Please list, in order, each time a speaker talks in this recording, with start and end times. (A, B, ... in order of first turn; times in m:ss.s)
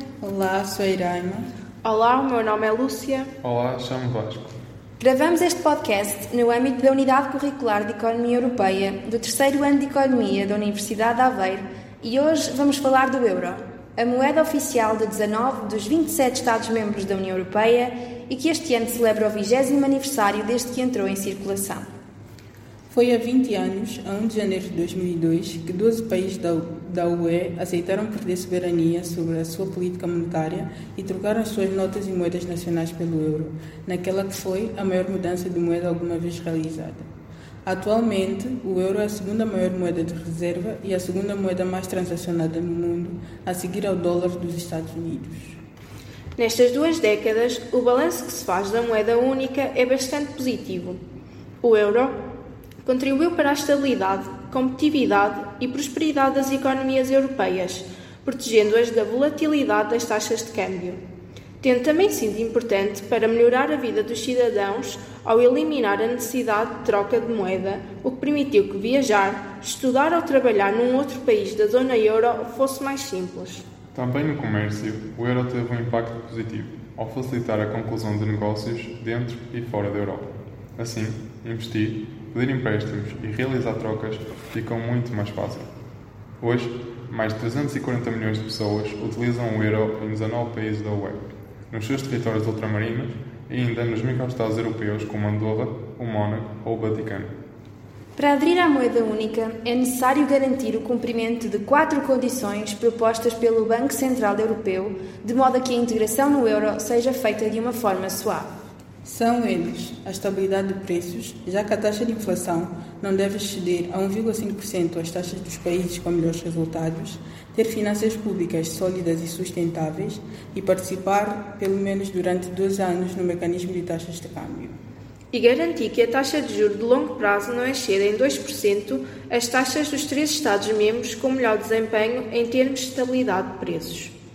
0:00.2-0:01.5 A
0:01.8-0:03.3 B
0:03.4-0:04.5 C
0:05.0-0:21.9 D
0:22.9-0:37.1 A
0:37.6-0:45.6 A
0:46.4-0:51.0 B
0:51.6-0:52.2 B
0:52.8-1:01.0 B
1:01.6-1:13.6 B
1:13.9-1:25.7 C
1:26.4-1:37.3 C
1:38.2-1:48.5 D
1:49.0-2:04.8 A
2:05.3-2:14.1 B